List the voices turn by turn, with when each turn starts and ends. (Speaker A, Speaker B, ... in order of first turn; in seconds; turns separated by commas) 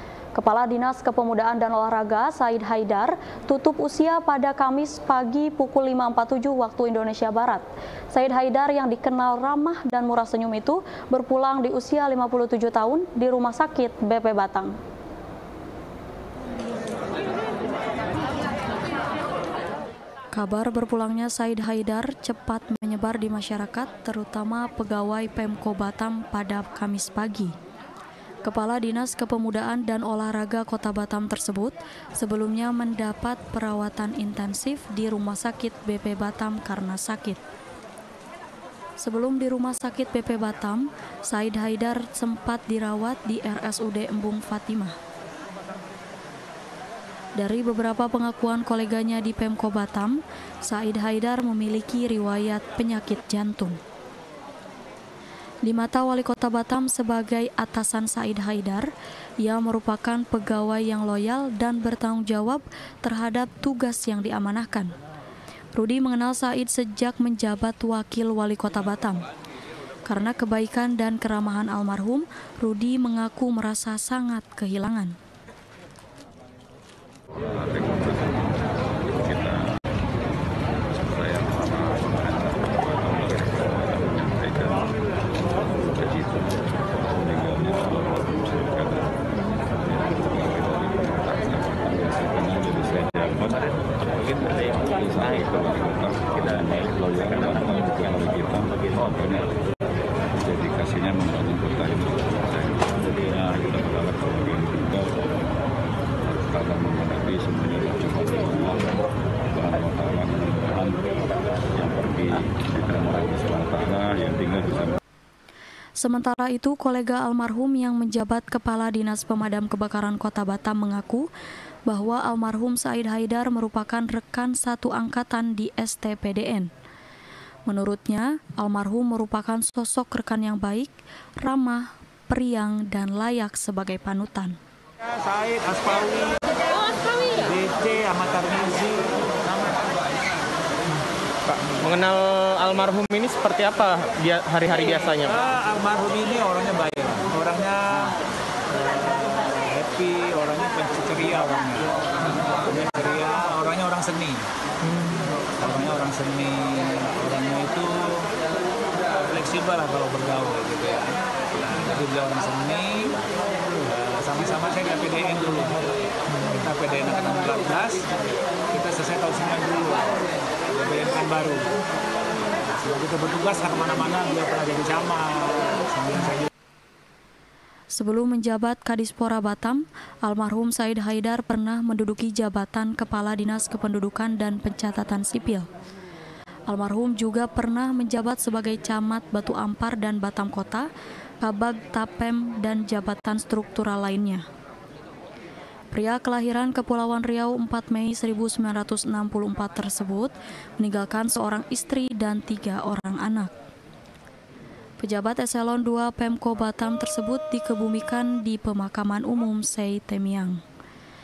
Speaker A: 0.3-14.8, Speaker A: 20.3-27.6, Speaker A: 28.4-37.4, Speaker A: 39.0-45.0, Speaker A: 47.4-53.8, Speaker A: 55.6-58.9, Speaker A: 59.4-64.9, Speaker A: 65.8-69.3, Speaker A: 70.1-75.2, Speaker B: 77.5-79.6, Speaker B: 80.9-99.6, Speaker B: 100.4-105.3, Speaker B: 106.2-109.0, Speaker B: 109.5-111.2, Speaker B: 111.8-115.0, Speaker A: 116.0-121.3, Speaker A: 121.9-126.7, Speaker A: 127.7-134.6, Speaker C: 135.2-136.6, Speaker C: 137.1-139.7, Speaker D: 141.5-145.4, Speaker C: 145.3-148.2, Speaker C: 148.7-154.5, Speaker D: 154.9-155.1, Speaker C: 155.5-158.3, Speaker C: 159.1-163.2, Speaker C: 163.8-168.1, Speaker C: 168.7-171.7, Speaker C: 172.8-176.5, Speaker A: 177.9-185.7, Speaker A: 186.7-190.9, Speaker A: 191.4-194.4, Speaker A: 195.9-203.5, Speaker A: 205.0-210.6